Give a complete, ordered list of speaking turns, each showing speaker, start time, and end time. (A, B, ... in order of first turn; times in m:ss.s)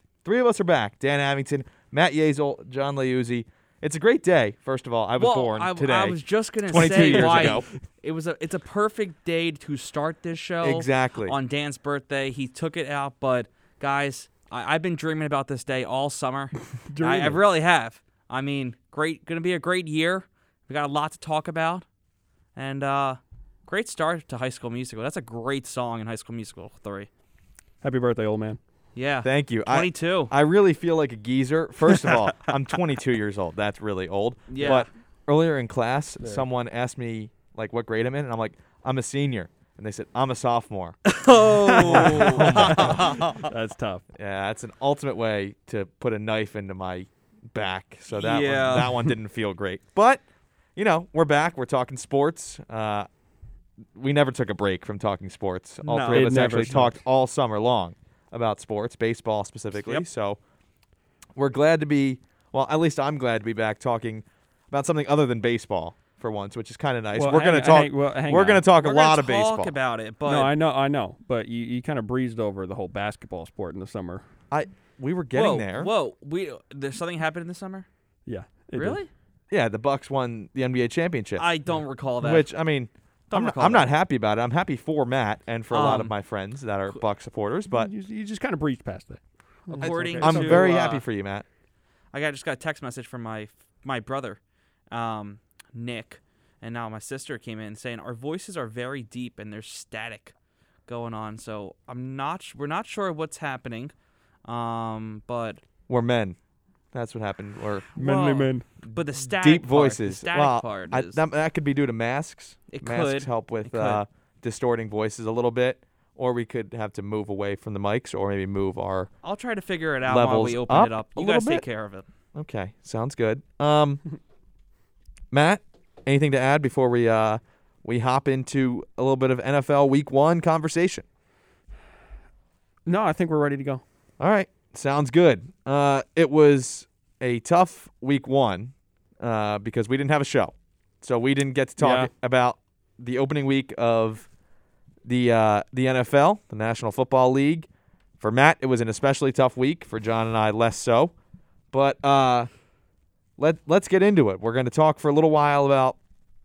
0:00.2-0:07.7 A
0:05.2-0:21.8 B
0:06.8-0:07.6 C
0:10.6-0:11.3 A
0:16.7-0:17.4 C
0:22.6-0:27.1 B
0:27.8-0:28.6 C
0:28.9-0:30.3 B
0:29.2-0:41.0 A
0:31.9-0:32.2 B
0:34.5-0:34.9 B
0:36.2-0:36.4 C
0:41.0-0:43.5 B
0:41.7-0:44.0 C
0:41.8-0:43.0 A
0:44.1-0:50.2 A
0:48.1-0:49.1 B
0:50.8-0:53.1 A
0:53.9-1:00.4 A
0:55.8-0:56.6 B
0:56.1-0:57.0 C
1:01.4-1:09.7 A
1:07.1-1:08.6 C
1:08.8-1:10.5 B
1:10.2-1:14.2 C
1:14.5-1:15.9 A
1:15.3-1:17.8 B
1:18.2-1:19.0 C
1:18.7-1:19.1 B
1:19.5-1:21.4 A
1:21.4-1:22.5 B
1:22.2-1:27.9 A
1:23.3-1:23.9 B
1:25.7-1:26.1 B
1:27.7-1:30.7 C
1:29.8-1:31.0 B
1:29.8-1:31.4 A
1:32.1-1:34.4 B
1:34.9-1:40.3 B
1:40.9-1:43.9 B
1:44.4-1:45.6 B
1:45.9-1:46.4 A
1:46.9-1:47.9 A
1:47.9-1:48.6 C
1:47.9-1:51.2 B
1:49.4-1:59.1 A
1:52.7-1:54.0 B
1:59.2-2:02.0 B
2:00.0-2:01.6 A
2:02.3-2:04.0 A
2:05.3-2:11.0 A
2:12.8-2:13.8 C
2:14.2-2:24.3 A
2:21.8-2:22.1 C
2:25.0-2:27.7 A
2:28.2-2:31.1 A
2:31.7-2:32.5 A
2:33.4-2:36.0 A